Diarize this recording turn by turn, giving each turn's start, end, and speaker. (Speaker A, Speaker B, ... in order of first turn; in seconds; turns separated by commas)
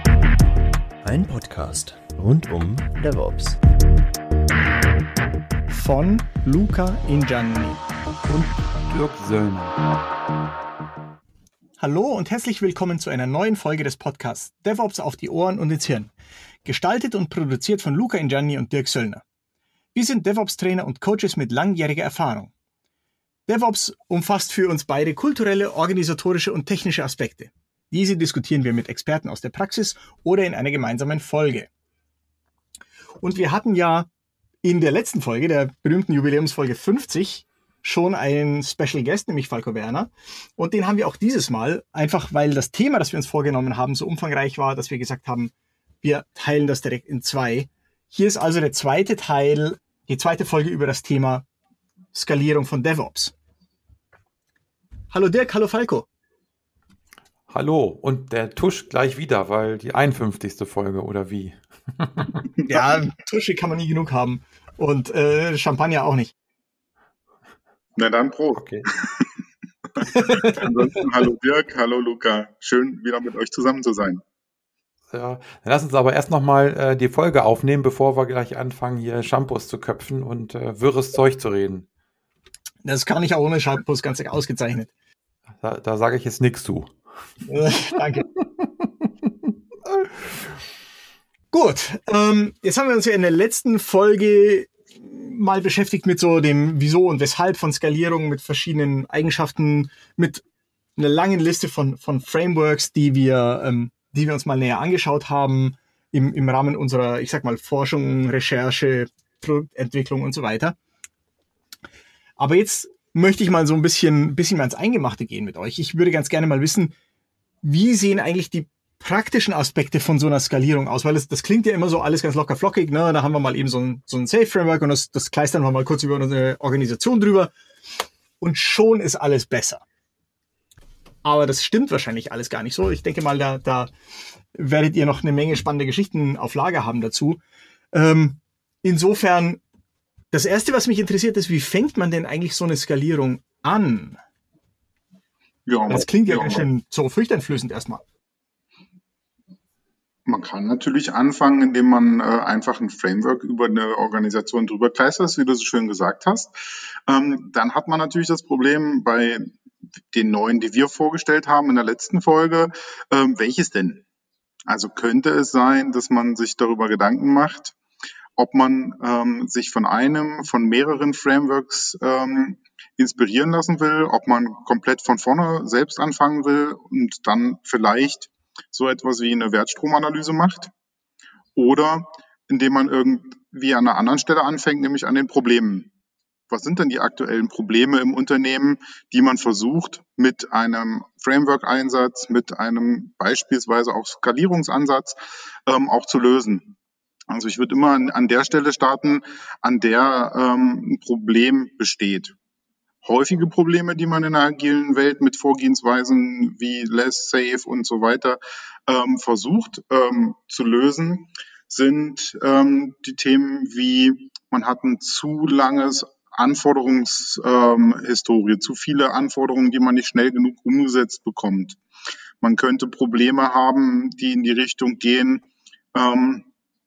Speaker A: 1.0-3.6, Speaker B: 5.7-7.8, Speaker C: 8.2-9.7, Speaker B: 11.8-16.1, Speaker B: 16.6-19.2, Speaker B: 19.9-22.5, Speaker B: 23.5-31.7, Speaker B: 33.2-34.1, Speaker B: 34.6-51.5, Speaker B: 52.1-53.3, Speaker B: 55.1-56.1, Speaker C: 57.5-62.5, Speaker B: 62.7-66.3, Speaker D: 68.0-69.3, Speaker C: 68.5-68.8, Speaker D: 70.0-74.2, Speaker B: 70.1-70.7, Speaker C: 75.1-81.9, Speaker B: 82.8-84.9, Speaker C: 85.6-86.9, Speaker B: 87.5-88.3, Speaker B: 91.5-100.4, Speaker B: 101.0-110.8, Speaker B: 112.4-116.9, Speaker B: 117.6-127.5, Speaker B: 128.4-129.8, Speaker B: 131.2-133.9, Speaker B: 134.5-137.4, Speaker B: 137.9-139.6, Speaker B: 140.3-144.2, Speaker D: 145.7-146.6, Speaker B: 145.9-148.0, Speaker D: 150.3-156.5, Speaker D: 157.1-159.5, Speaker D: 160.1-164.0, Speaker D: 164.7-167.8, Speaker D: 168.4-180.7, Speaker D: 181.6-185.9, Speaker D: 186.5-196.7, Speaker D: 197.3-202.3, Speaker D: 203.0-221.8, Speaker D: 222.4-226.5